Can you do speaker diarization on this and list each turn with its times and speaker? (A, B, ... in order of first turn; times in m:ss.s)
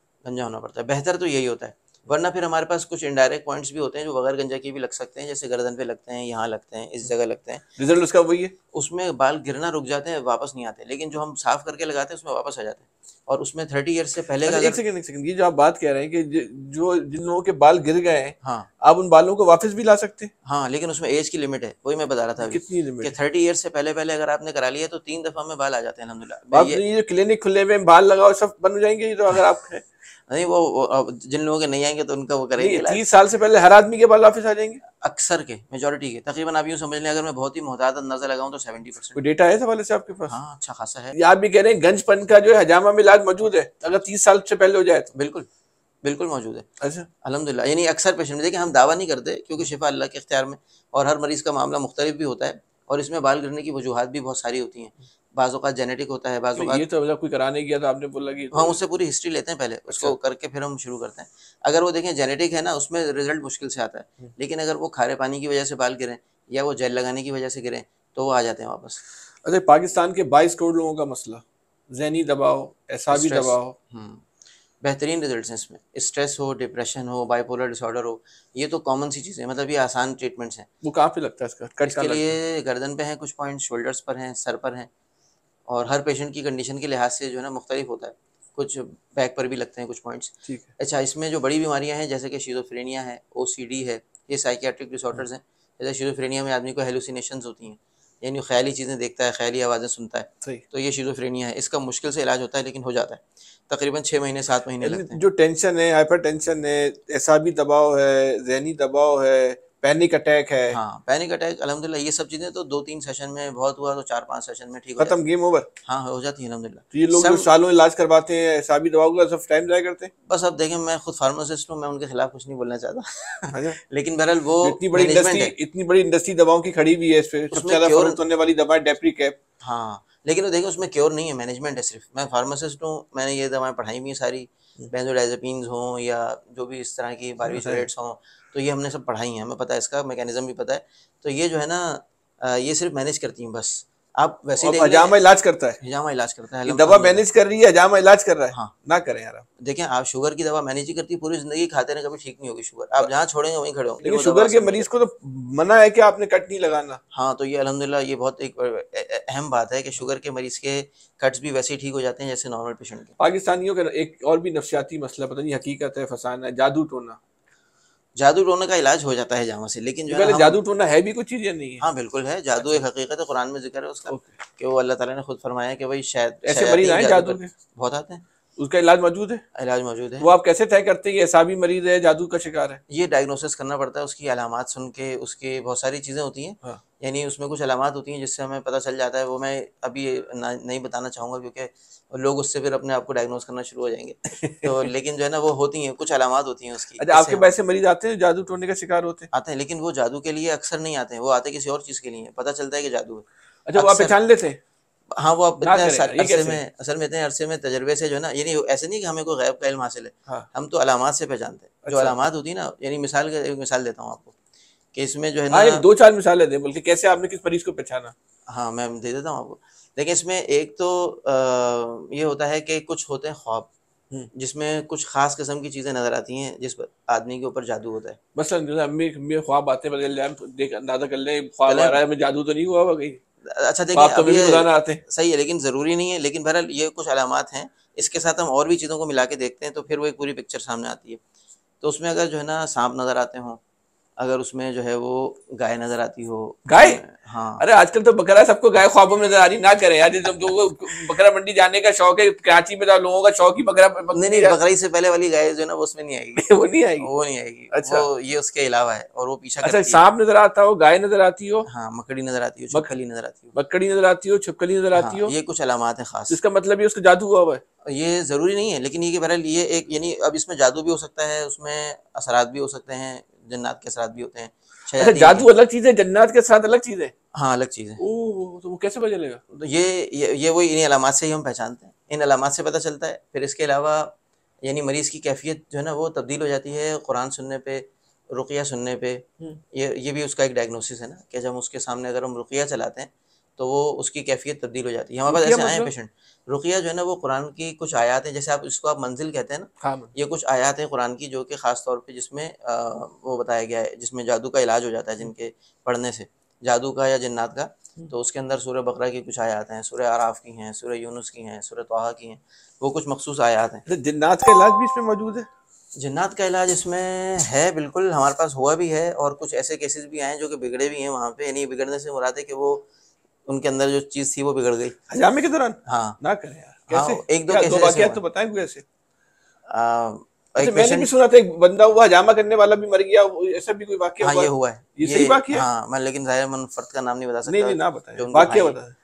0:00.2-0:07.6 A
0:07.8-0:08.5 B
0:08.7-0:14.8 A
0:14.4-0:20.3 B
0:18.4-0:18.7 A
0:20.4-0:26.8 A
0:22.4-0:23.1 B
0:26.5-0:29.8 B
0:30.3-0:33.0 A
0:32.6-0:34.8 B
0:34.9-0:39.2 A
0:39.2-0:40.3 B
0:40.3-0:41.2 A
0:41.1-0:45.1 B
0:45.1-0:45.5 A
0:46.0-0:46.7 A
0:46.8-0:47.1 B
0:47.2-0:56.8 A
0:56.6-0:58.8 B
0:58.5-1:09.0 A
0:59.9-1:00.1 B
1:09.4-1:13.8 B
1:13.1-1:14.2 A
1:14.8-1:20.7 A
1:20.8-1:22.3 B
1:21.8-1:24.9 A
1:25.7-1:45.2 A
1:44.8-1:50.8 B
1:50.7-1:55.2 A
1:55.0-1:55.7 B
1:55.8-1:57.5 A
1:56.9-2:00.1 B
2:00.3-2:05.5 A
2:03.5-2:03.8 B
2:04.6-2:09.4 B
2:07.5-2:08.2 A
2:09.6-2:25.2 A
2:17.4-2:17.9 B
2:24.6-2:25.8 B
2:25.8-2:27.2 A
2:26.6-2:29.4 B
2:29.6-2:34.9 A
2:34.0-2:37.0 B
2:37.1-2:43.2 A
2:43.2-2:47.2 B
2:48.2-2:50.6 A
2:50.1-2:51.8 B
2:51.8-2:58.2 A
2:56.4-2:57.5 B
2:58.6-2:59.4 B
2:59.5-3:00.3 A
3:00.2-3:02.8 B
3:02.9-3:17.5 A
3:14.3-3:14.8 B
3:17.0-3:19.3 B
3:19.3-3:23.2 A
3:23.7-3:24.6 B
3:23.8-3:24.1 A
3:25.1-3:34.3 A
3:25.6-3:26.6 B
3:31.8-3:32.2 B
3:34.9-3:35.8 A
3:35.5-3:38.1 B
3:38.5-3:43.7 A
3:44.3-3:48.2 A
3:48.3-3:53.2 B
3:51.6-3:52.0 A
3:53.4-4:01.2 A
3:53.9-3:55.0 B
4:01.8-4:03.6 A
4:04.2-4:07.6 A
4:06.7-4:07.0 B
4:07.6-4:14.6 B
4:14.1-4:20.0 A
4:16.4-4:17.1 B
4:17.7-4:18.0 B
4:19.6-4:21.7 B
4:21.7-4:23.5 A
4:23.5-4:25.3 B
4:24.9-4:26.4 A
4:26.3-4:27.6 B
4:27.8-4:35.5 A
4:35.0-4:37.1 B
4:37.3-4:38.0 A
4:38.0-4:39.4 B
4:39.5-5:13.8 A
4:55.3-4:55.9 B
4:59.8-5:00.1 B
5:13.8-5:15.5 B
5:16.0-5:22.9 A
5:23.5-5:25.0 A
5:25.1-5:28.8 B
5:25.8-5:26.2 A
5:26.9-5:28.2 A
5:29.7-5:31.1 A
5:30.6-5:35.6 B
5:34.2-5:38.8 A
5:37.5-5:38.9 B